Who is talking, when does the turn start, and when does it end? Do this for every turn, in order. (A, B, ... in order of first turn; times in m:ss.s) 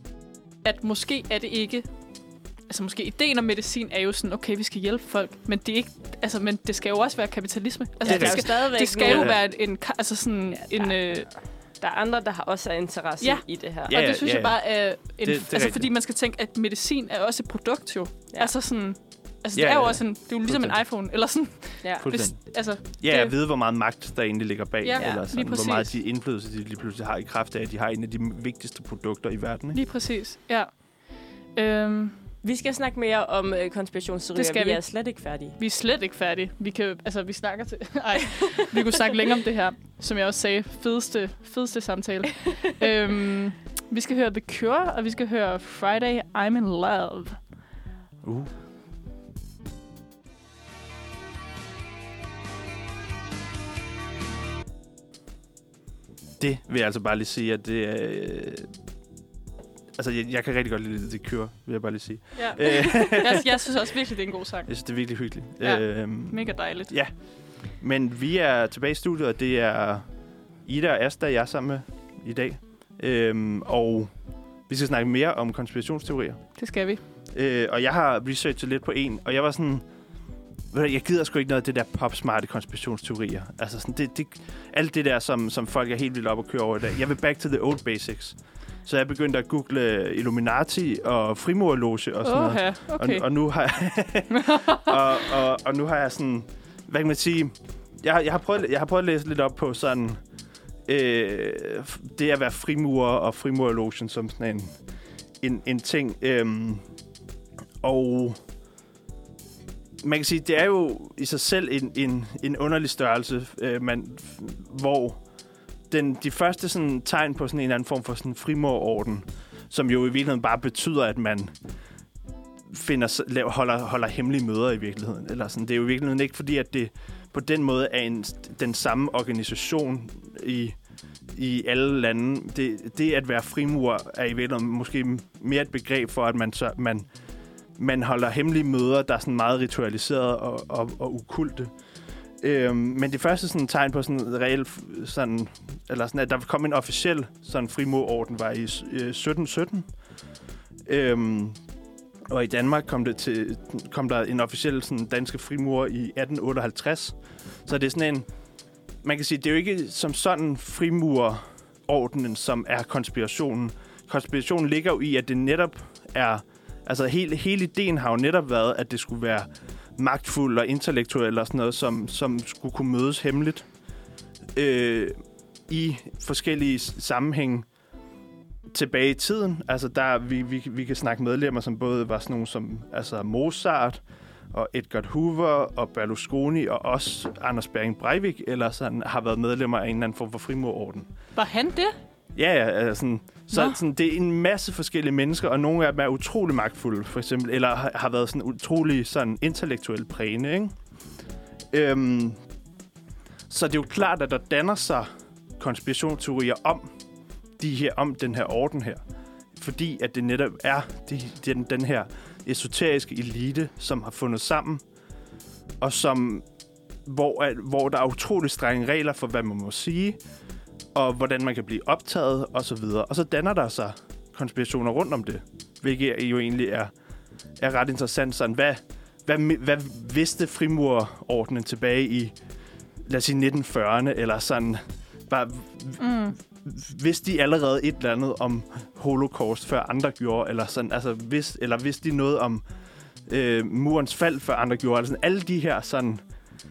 0:00.6-0:11.3 A
0:08.0-0:09.4 B
0:08.0-0:09.4 C
0:10.5-0:13.9 B
0:13.2-0:23.3 A
0:13.9-0:15.9 C
0:19.5-0:20.8 C
0:21.8-0:22.1 B
0:22.0-0:29.8 C
0:24.8-0:26.0 A
0:25.0-0:25.2 B
0:29.7-0:32.2 A
0:32.4-0:35.6 B
0:34.3-0:47.5 A
0:48.2-0:48.5 C
0:56.4-0:58.7 C
1:00.0-1:03.4 C
1:02.4-1:07.0 A
1:04.7-1:16.7 C
1:16.6-1:17.0 A
1:17.3-1:19.9 C
1:20.7-1:40.2 C
1:32.2-1:33.3 A
1:34.4-1:34.8 A
1:40.8-1:44.8 C
1:45.4-1:46.9 C
1:47.8-1:48.4 C
1:50.0-1:55.2 C
1:55.9-2:01.5 C
2:02.7-2:10.8 C
2:11.3-2:17.1 C
2:17.8-2:21.7 C
2:22.4-2:30.0 C
2:30.8-2:31.6 C
2:32.3-2:38.3 C
2:39.0-2:53.7 C
2:54.6-2:57.7 C
2:58.7-3:11.1 C
3:11.4-3:12.0 A
3:12.4-3:20.8 C
3:13.5-3:13.8 A
3:21.7-3:22.4 C
3:23.5-3:26.9 C
3:27.6-3:29.0 C
3:29.5-3:34.8 C
3:35.8-3:36.5 C
3:37.0-3:40.2 C
3:40.9-3:46.9 C
3:47.6-3:52.4 C
3:53.0-4:02.6 C
3:56.0-3:56.4 A
4:03.3-4:06.2 C